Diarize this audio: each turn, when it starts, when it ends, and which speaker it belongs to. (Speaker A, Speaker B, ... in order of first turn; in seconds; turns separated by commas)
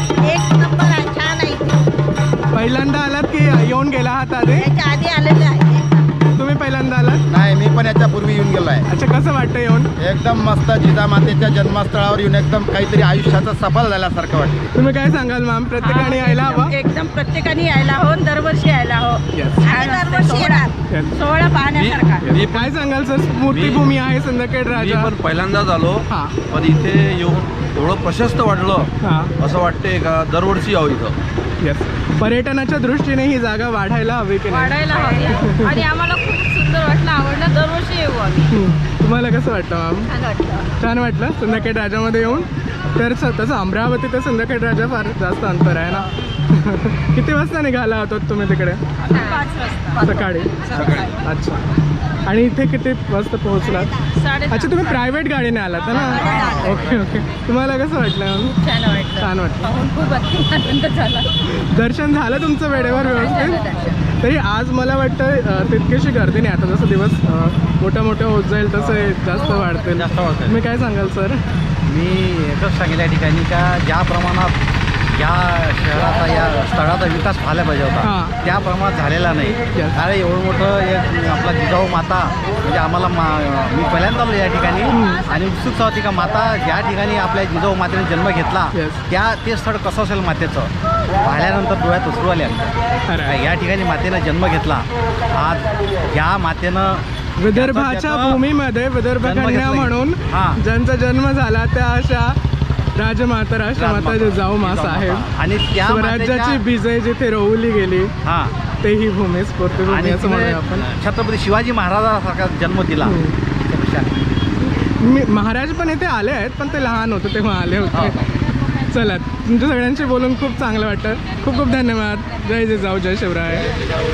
Speaker A: 0.2-1.7, Speaker B: 2.5-4.7, Speaker A: 4.6-5.9, Speaker B: 6.4-7.2, Speaker C: 7.3-8.9, Speaker B: 8.9-9.9, Speaker C: 10.0-14.6, Speaker B: 14.8-16.8, Speaker A: 15.8-22.3, Speaker B: 19.3-19.8, Speaker B: 20.9-21.1, Speaker D: 21.7-22.7, Speaker B: 22.2-25.1, Speaker D: 23.4-23.9, Speaker D: 24.7-31.2, Speaker B: 26.1-26.4, Speaker B: 29.0-29.3, Speaker B: 31.6-35.9, Speaker A: 34.5-38.5, Speaker B: 38.5-40.1, Speaker A: 40.1-40.7, Speaker B: 40.8-48.8, Speaker A: 49.1-50.1, Speaker B: 50.0-50.6, Speaker D: 50.8-51.1, Speaker B: 51.2-51.6, Speaker B: 52.3-53.9, Speaker A: 54.1-54.9, Speaker B: 54.5-58.6, Speaker A: 55.9-56.8, Speaker A: 58.6-61.3, Speaker B: 59.2-59.7, Speaker B: 61.5-63.6, Speaker A: 63.1-64.0, Speaker B: 64.2-71.4, Speaker E: 69.9-70.6, Speaker E: 71.9-74.6, Speaker E: 75.1-92.7, Speaker B: 78.0-78.4, Speaker B: 79.7-80.0, Speaker B: 84.9-85.3, Speaker B: 88.7-89.0, Speaker B: 93.1-93.4, Speaker E: 93.3-98.4, Speaker B: 97.4-102.4, Speaker E: 99.2-100.6, Speaker B: 103.0-105.3, Speaker E: 103.8-106.6, Speaker B: 105.8-108.1, Speaker E: 108.2-108.5, Speaker B: 108.8-110.9, Speaker E: 109.9-114.3, Speaker B: 113.0-113.4, Speaker B: 115.0-118.2, Speaker E: 117.9-118.2, Speaker B: 118.9-123.7